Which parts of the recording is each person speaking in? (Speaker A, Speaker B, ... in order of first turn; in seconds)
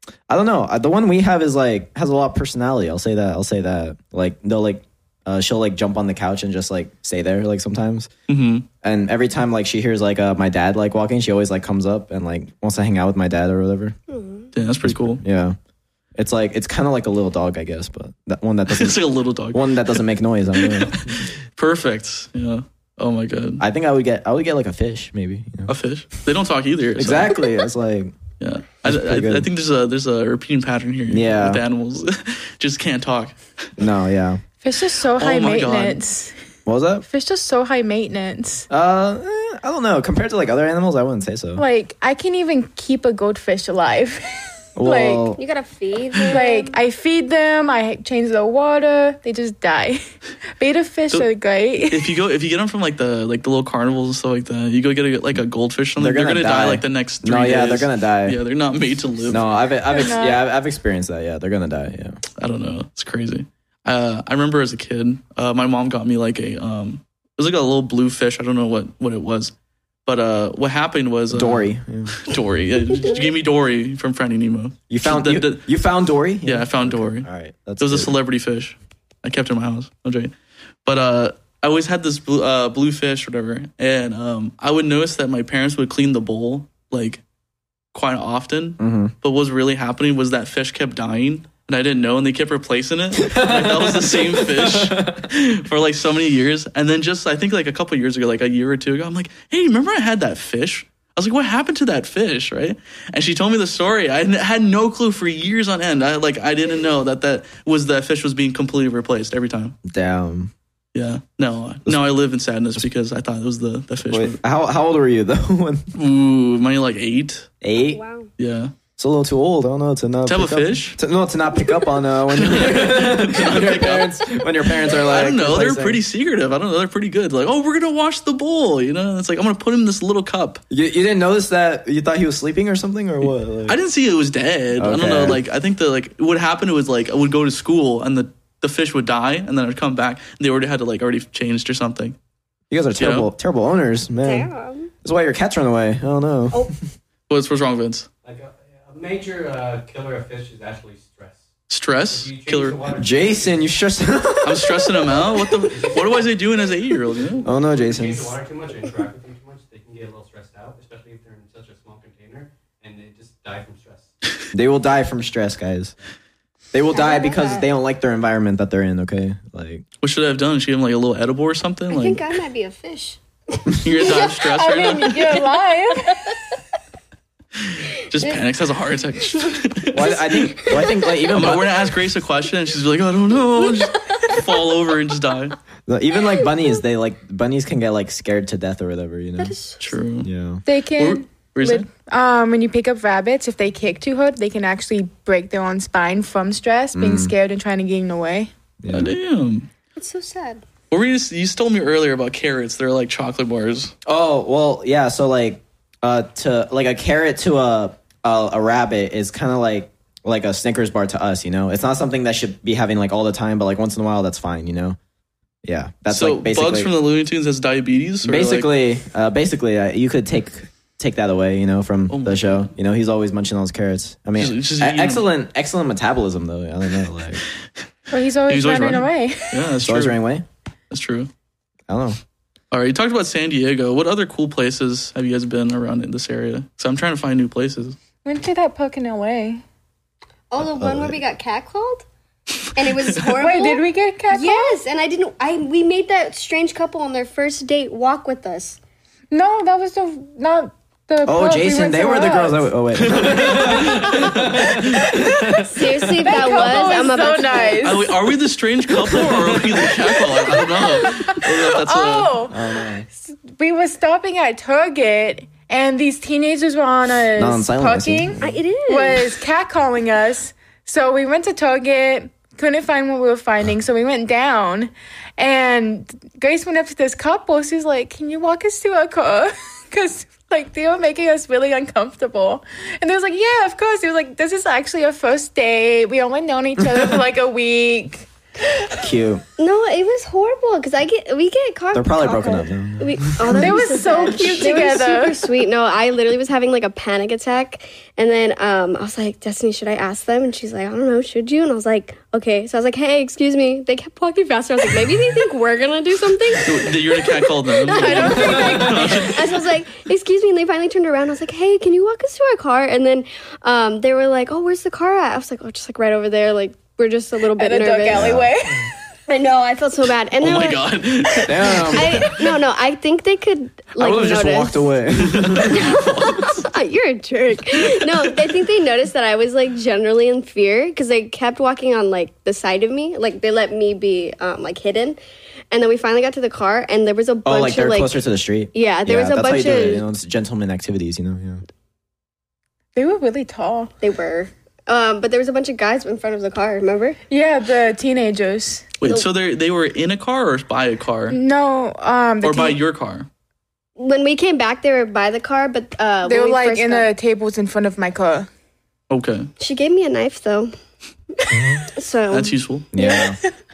Speaker A: 0.3-8.1, 8.8-14.0, 14.8-15.6, 16.2-19.0, 19.5-21.3, 23.6-25.7, 27.0-28.2, 28.8-29.5, 31.1-31.6, 33.8-34.4, 36.7-37.0, 38.7-41.6, 44.8-45.4, 56.0-58.4, 59.3-62.2, 71.3-72.2, 74.9-78.2, 88.8-89.1, 93.2-95.3, 109.8-110.5, 114.1-115.8, 117.6-118.0, 119.0-126.0, 130.7-133.8, 134.8-135.4, 142.7-144.5, 145.0-146.7, 152.9-155.0, 157.4-158.3, 164.5-165.9, 166.7-169.8, 179.9-181.7, 185.9-189.6, 190.2-190.6, 196.9-197.3, 198.8-199.1, 204.1-215.0, 215.6-216.9, 218.2-227.4, 229.8-230.4, 231.9-232.2, 240.6-241.2, 251.2-256.2, 259.1-259.8, 262.5-263.1, 267.4-268.5, 289.0-289.4, 291.9-293.9, 308.4-308.7, 318.1-318.5, 321.4-322.3, 324.0-325.9, 337.4-341.6, 362.9-363.4
Speaker B: 8.3-8.7, 14.5-15.2, 18.7-20.0, 20.6-23.6, 25.7-27.4, 28.4-33.7, 35.2-36.0, 51.9-59.5, 62.4-69.5, 70.1-75.7, 76.5-77.3, 77.8-80.3, 80.8-87.2, 87.9-109.8, 110.9-114.4, 116.0-117.5, 118.4-118.7, 120.3-121.0, 122.3-124.2, 124.8-130.6, 133.7-142.2, 143.0-143.3, 147.3-148.1, 151.7-152.8, 154.4-157.4, 170.0-172.2, 173.8-175.3, 177.6-180.1, 181.3-185.6, 189.8-190.3, 190.9-191.9, 198.9-199.7, 200.9-203.9, 216.1-218.8, 222.1-222.7, 224.4-225.2, 228.5-230.2, 230.9-231.3, 232.7-238.0, 253.0-255.1, 257.8-262.4, 306.6-309.5, 320.4-322.5, 325.2-326.7, 349.0-351.4, 352.4-353.3, 359.1-359.5, 362.3-362.9
Speaker C: 14.1-14.5, 45.4-46.8, 117.7-118.3, 144.2-144.9, 166.9-167.7, 171.9-174.2, 175.0-176.6, 180.0-181.3, 183.6-184.8, 189.4-189.9, 200.0-200.6, 240.5-242.1, 242.7-248.8, 255.6-258.1, 268.4-269.4, 289.6-318.4, 319.3-324.9, 325.7-335.2, 335.7-338.2, 338.7-340.1, 344.0-347.2, 354.0-357.1, 359.6-360.7, 362.0-362.5
Speaker D: 34.6-36.3, 37.1-38.7, 41.6-44.2, 44.8-45.3, 46.3-50.0, 50.6-52.1, 59.9-60.4, 174.4-176.3, 190.7-198.5, 228.1-229.6, 238.2-239.6, 243.4-244.8, 249.3-252.7, 255.1-258.1, 260.5-289.0, 293.5-295.4, 308.0-309.0, 317.6-318.9, 342.9-343.9, 347.3-348.8, 351.3-352.8, 356.3-358.5, 363.0-363.3
Speaker E: 148.2-151.5, 152.1-153.7, 155.7-156.3, 157.3-164.1